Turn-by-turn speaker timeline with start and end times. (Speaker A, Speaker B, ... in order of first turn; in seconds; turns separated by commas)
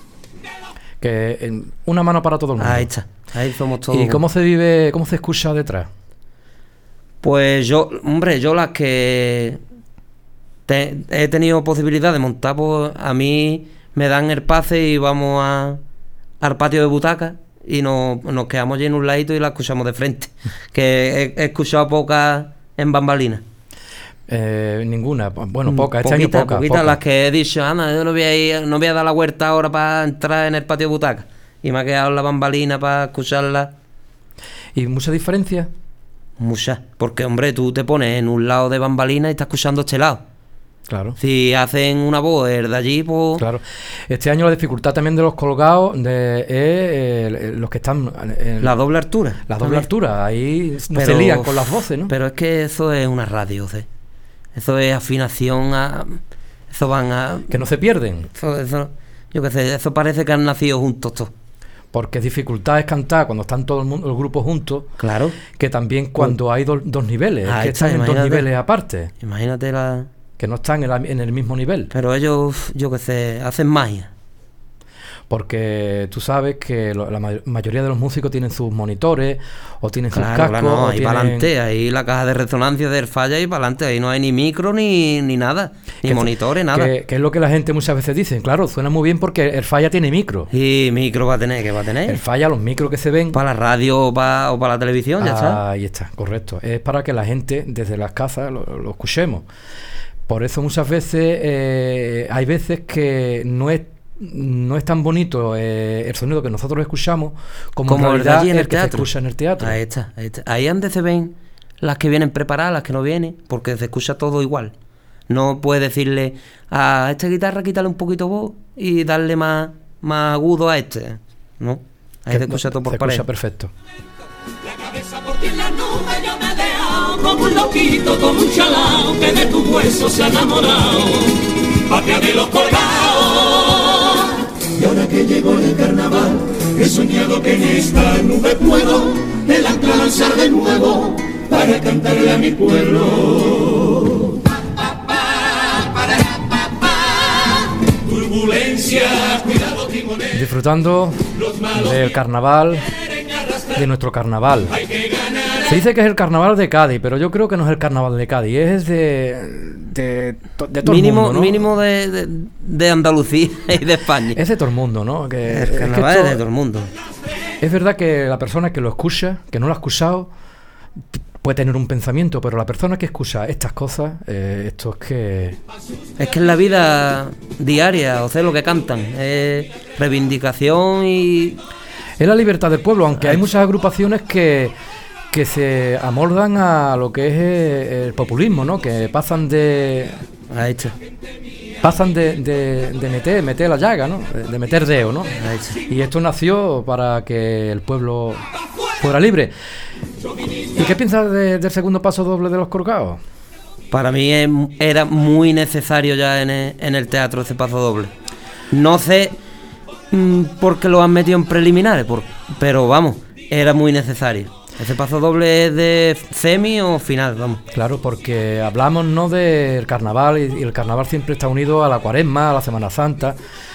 Speaker A: 1.0-2.9, Speaker B: 2.6-4.2, Speaker A: 3.9-5.9, Speaker B: 7.2-9.6, Speaker B: 10.7-15.8, Speaker B: 16.4-23.4, Speaker A: 24.3-27.0, Speaker B: 25.6-33.7, Speaker A: 34.7-35.7, Speaker B: 36.4-40.2, Speaker A: 40.9-41.2, Speaker B: 41.2-43.4, Speaker A: 43.4-48.7, Speaker B: 48.6-49.9, Speaker A: 49.5-52.1, Speaker B: 50.9-53.9, Speaker B: 54.5-57.6, Speaker A: 57.5-58.3, Speaker B: 58.3-61.3, Speaker A: 61.9-64.9, Speaker B: 65.0-65.4, Speaker A: 65.5-69.1, Speaker B: 67.4-68.4, Speaker B: 69.2-70.1, Speaker A: 70.4-71.9, Speaker B: 71.9-74.1, Speaker A: 75.3-81.5, Speaker B: 80.1-86.9, Speaker A: 86.0-90.5, Speaker B: 90.5-92.2, Speaker A: 92.0-93.4, Speaker B: 93.3-95.6, Speaker A: 95.2-99.5, Speaker A: 100.3-109.8, Speaker B: 107.9-109.1, Speaker B: 109.6-114.7, Speaker B: 115.3-123.2, Speaker A: 122.3-123.7, Speaker C: 125.0-143.6, Speaker C: 148.2-149.9, Speaker A: 150.3-152.9, Speaker A: 153.7-154.8, Speaker A: 155.7-161.7, Speaker B: 160.8-164.4, Speaker A: 164.3-166.4, Speaker B: 165.5-166.9, Speaker A: 167.6-170.3, Speaker A: 171.4-175.6, Speaker B: 176.2-181.6, Speaker A: 182.2-184.7, Speaker A: 185.3-190.2, Speaker B: 190.5-190.9, Speaker A: 191.8-195.3, Speaker B: 195.4-195.8, Speaker A: 195.9-198.4, Speaker A: 199.0-199.5, Speaker A: 200.8-203.2, Speaker B: 203.9-208.1, Speaker B: 208.7-209.3, Speaker B: 210.1-217.6, Speaker A: 217.7-223.3